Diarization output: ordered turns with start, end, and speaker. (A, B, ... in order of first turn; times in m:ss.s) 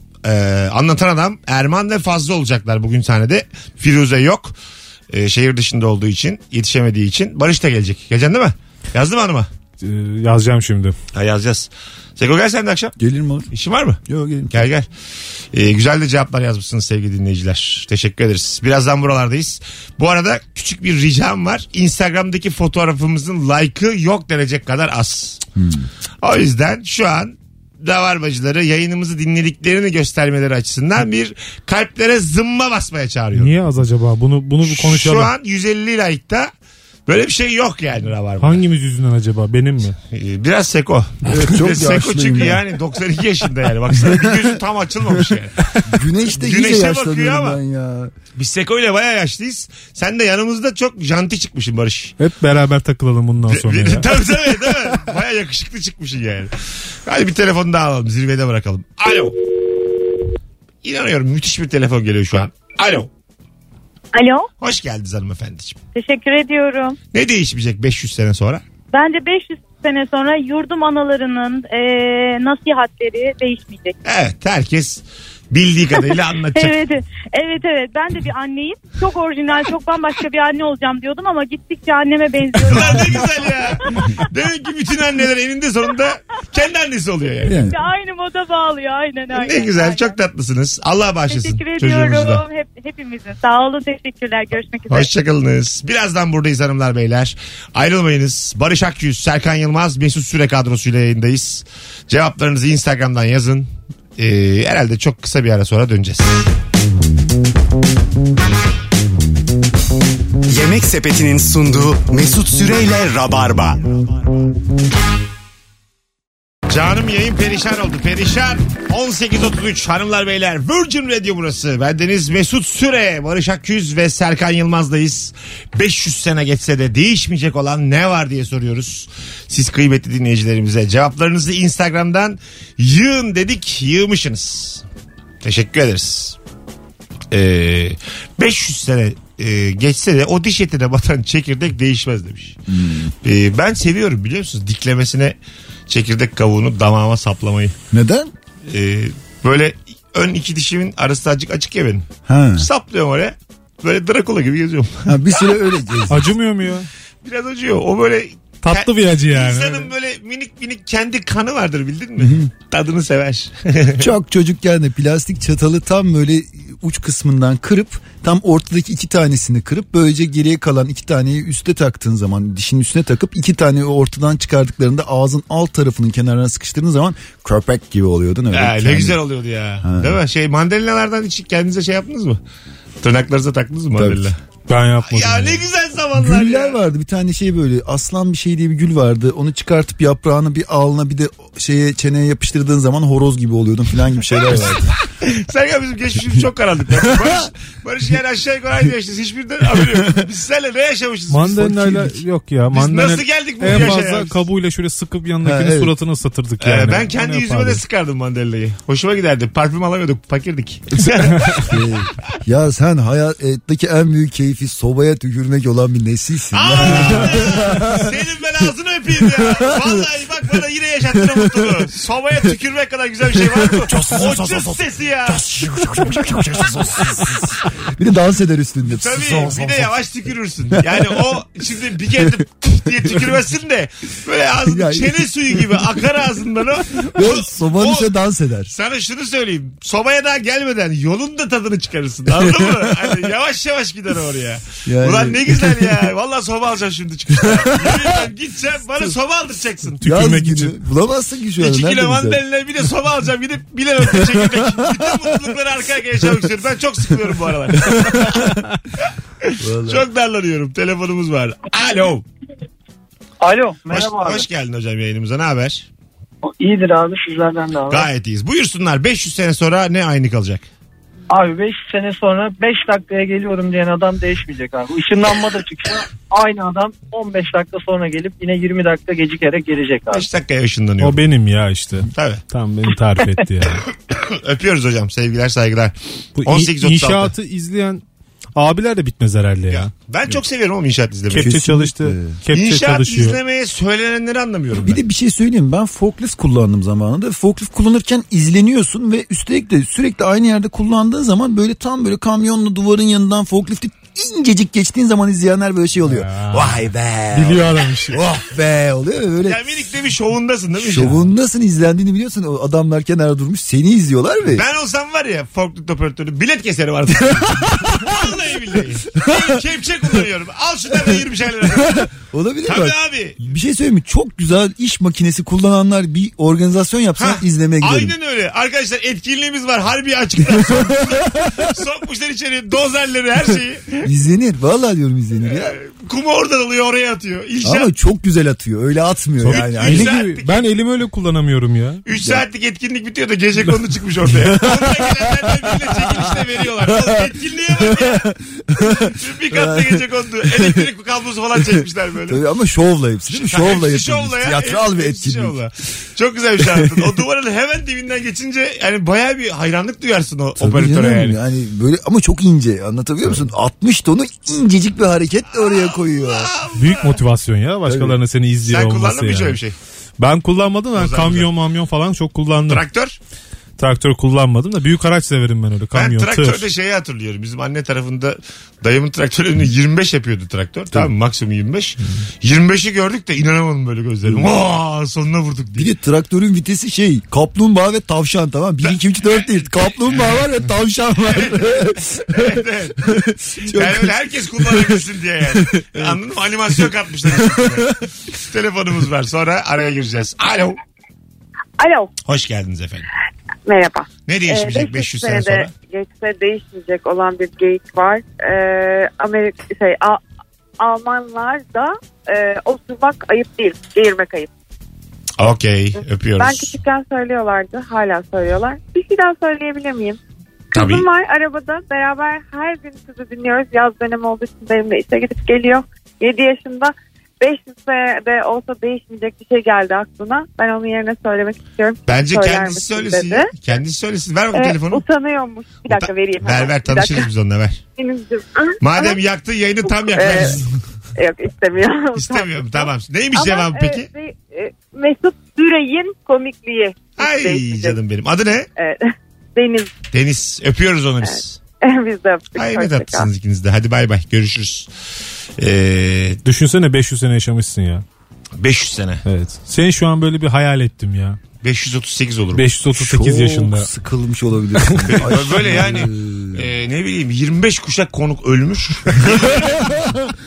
0:00.2-0:04.5 A
0:05.1-0:09.5 A
0:09.8-0:11.0 B
0:11.1-0:12.9 A
0:13.0-0:13.5 C
0:13.5-0:14.9 A
0:14.1-0:14.6 C
0:15.5-0:25.4 A
0:25.6-0:25.9 C
0:26.2-0:33.5 A
0:33.4-0:35.3 B
0:34.6-0:36.5 A
0:37.1-0:38.6 A
0:38.4-0:40.0 B
0:40.1-0:45.6 A
0:41.3-0:42.6 C
0:44.0-0:44.5 C
0:45.8-0:48.1 C
0:46.3-0:47.6 A
0:48.4-0:52.1 A
0:52.2-0:54.1 B
0:53.5-0:56.6 A
0:57.1-0:59.4 A
1:00.8-1:03.1 A
1:04.1-1:04.5 D
1:04.6-1:05.8 A
1:05.9-1:07.0 D
1:07.1-1:08.6 A
1:08.9-1:13.9 D
1:14.0-1:16.8 A
1:15.9-1:24.2 D
1:22.6-1:27.8 A
1:27.4-1:27.8 C
1:27.6-1:30.2 D
1:29.3-1:32.4 A
1:31.3-1:35.1 D
1:34.9-1:46.5 A
1:50.5-1:53.9 E
1:56.7-2:14.8 A
2:15.4-2:16.4 A
2:17.3-2:22.6 A
2:22.7-2:23.1 C
2:23.2-2:25.4 A
2:25.9-2:27.7 A
2:27.9-2:28.3 C
2:28.7-2:32.1 A
2:32.3-2:32.7 C
2:32.6-2:35.4 A
2:35.0-2:36.3 C
2:36.1-2:36.9 B
2:37.2-2:44.0 A
2:38.6-2:39.9 B
2:42.2-2:42.5 C
2:44.0-2:59.2 C
2:58.5-3:02.4 A
2:59.8-3:00.2 C
3:03.0-3:04.4 A
3:04.0-3:04.3 C
3:04.7-3:05.6 B
3:05.0-3:06.8 A
3:06.2-3:15.0 C
3:15.2-3:21.8 A
3:17.0-3:17.4 C
3:19.8-3:20.0 C
3:21.3-3:27.8 B
3:21.6-3:22.2 C
3:22.7-3:24.4 A
3:25.4-3:25.9 C
3:26.6-3:31.6 A
3:31.4-3:31.7 B
3:31.6-3:38.2 C
3:36.5-3:45.4 A
3:36.8-3:37.6 B
3:39.2-3:40.0 C
3:41.1-3:41.8 C
3:43.3-3:49.9 C
3:48.9-3:58.1 A
3:50.7-3:51.4 C
3:54.6-3:56.0 C
3:57.2-3:58.7 C
3:58.7-4:10.0 A
4:02.3-4:03.2 C
4:04.8-4:06.1 C
4:07.4-4:08.2 C
4:10.0-4:12.4 C
4:10.0-4:10.8 B
4:11.6-4:22.2 A
4:14.0-4:15.3 C
4:17.8-4:18.6 C
4:19.6-4:20.0 C
4:23.4-4:24.4 F
4:23.9-4:25.9 A
4:26.4-4:28.1 F
4:27.9-4:30.7 A
4:31.3-4:40.2 F
4:40.1-4:41.2 A
4:41.0-4:43.8 B
4:42.1-4:42.4 A
4:44.1-4:45.9 A
4:46.4-4:48.0 B
4:46.4-4:47.3 A
4:48.6-4:49.9 B
4:49.7-4:51.6 A
4:51.3-4:53.4 B
4:51.3-4:52.4 C
4:52.5-4:55.0 A
4:54.8-5:09.6 C
5:06.0-5:08.2 B
5:09.4-5:11.2 A
5:10.8-5:14.6 C
5:14.5-5:22.1 A
5:17.6-5:18.3 C
5:19.2-5:19.6 C
5:21.7-5:28.1 C
5:22.7-5:23.4 A
5:27.2-5:34.1 A
5:30.4-5:31.7 C
5:34.0-5:35.8 C
5:35.5-5:37.9 A
5:37.6-5:40.2 C
5:39.4-5:42.0 B
5:39.5-5:40.6 A
5:42.1-5:48.3 A
5:42.2-5:42.4 C
5:44.3-5:50.8 C
5:48.9-5:52.4 A
5:51.6-5:55.6 C
5:53.3-6:01.4 A
5:56.6-5:57.2 C
6:00.6-6:06.5 C
6:05.5-6:07.2 A
6:06.8-6:09.6 B
6:07.9-6:08.2 C
6:08.6-6:09.8 A
6:10.2-6:12.8 B
6:11.0-6:11.5 A
6:12.7-6:13.2 A
6:13.8-6:16.6 B
6:15.9-6:25.9 A
6:25.8-6:36.2 C
6:28.8-6:30.4 A
6:31.3-6:31.8 A
6:32.3-6:33.0 A
6:33.7-6:40.8 A
6:36.8-6:37.9 C
6:41.8-6:42.1 G
6:42.2-6:43.1 A
6:43.7-6:50.2 G
6:44.3-6:45.7 A
6:50.8-6:54.5 G
6:55.4-6:56.8 A
6:56.4-7:00.2 G
7:00.7-7:13.5 G
7:00.7-7:01.1 A
7:12.1-7:15.0 A
7:14.5-7:17.3 G
7:15.9-7:17.8 A
7:18.0-7:19.2 G
7:18.8-7:20.7 A
7:19.8-7:20.6 G
7:21.2-7:28.0 G
7:22.2-7:24.1 A
7:27.2-7:28.7 A
7:28.8-7:29.9 G
7:30.1-7:31.6 A
7:31.2-7:33.3 G
7:32.6-7:34.9 A
7:35.6-7:36.4 A
7:36.4-7:38.0 B
7:38.6-7:39.2 A
7:39.2-7:41.4 B
7:41.6-7:42.6 A
7:42.6-7:43.9 B
7:42.9-7:46.7 C
7:44.8-7:45.2 B
7:45.3-7:50.0 A
7:49.2-7:50.4 C